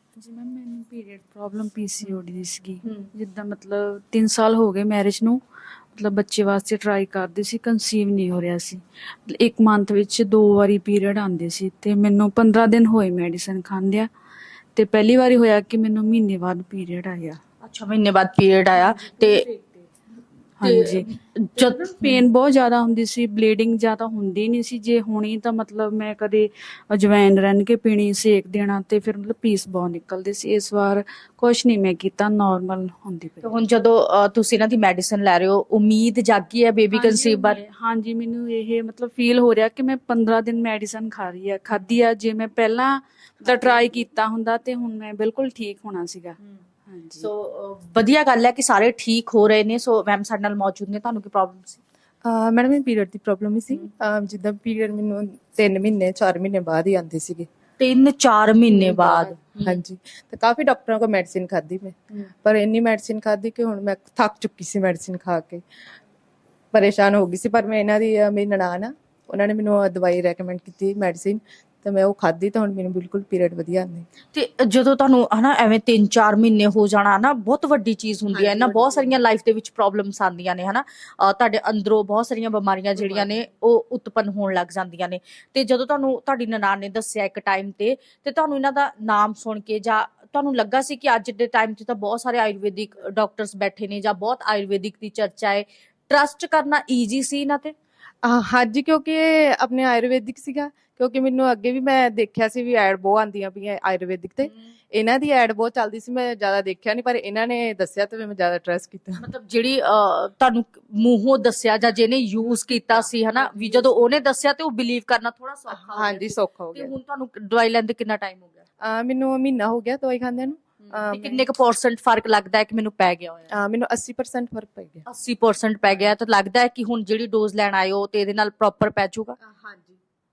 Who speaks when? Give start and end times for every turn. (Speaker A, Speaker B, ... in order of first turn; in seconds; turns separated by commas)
Speaker A: 0.2-5.4, Speaker A: 5.9-14.1, Speaker A: 14.7-17.4, Speaker B: 17.6-19.4, Speaker A: 18.7-19.9, Speaker A: 20.6-33.5, Speaker B: 20.6-22.2, Speaker B: 33.4-37.6, Speaker A: 36.9-47.3, Speaker B: 43.5-43.8, Speaker B: 47.2-51.8, Speaker C: 52.2-57.5, Speaker B: 57.8-59.8, Speaker A: 58.9-59.2, Speaker C: 59.1-65.6, Speaker C: 66.7-74.1, Speaker B: 74.3-97.7, Speaker C: 78.3-79.1, Speaker C: 83.0-83.4, Speaker C: 98.2-109.2, Speaker B: 109.2-118.7, Speaker C: 112.4-114.2, Speaker C: 115.7-116.9, Speaker C: 118.8-121.4, Speaker B: 120.8-123.5, Speaker C: 123.5-125.0, Speaker B: 125.1-129.3, Speaker C: 125.9-126.1, Speaker C: 129.4-130.0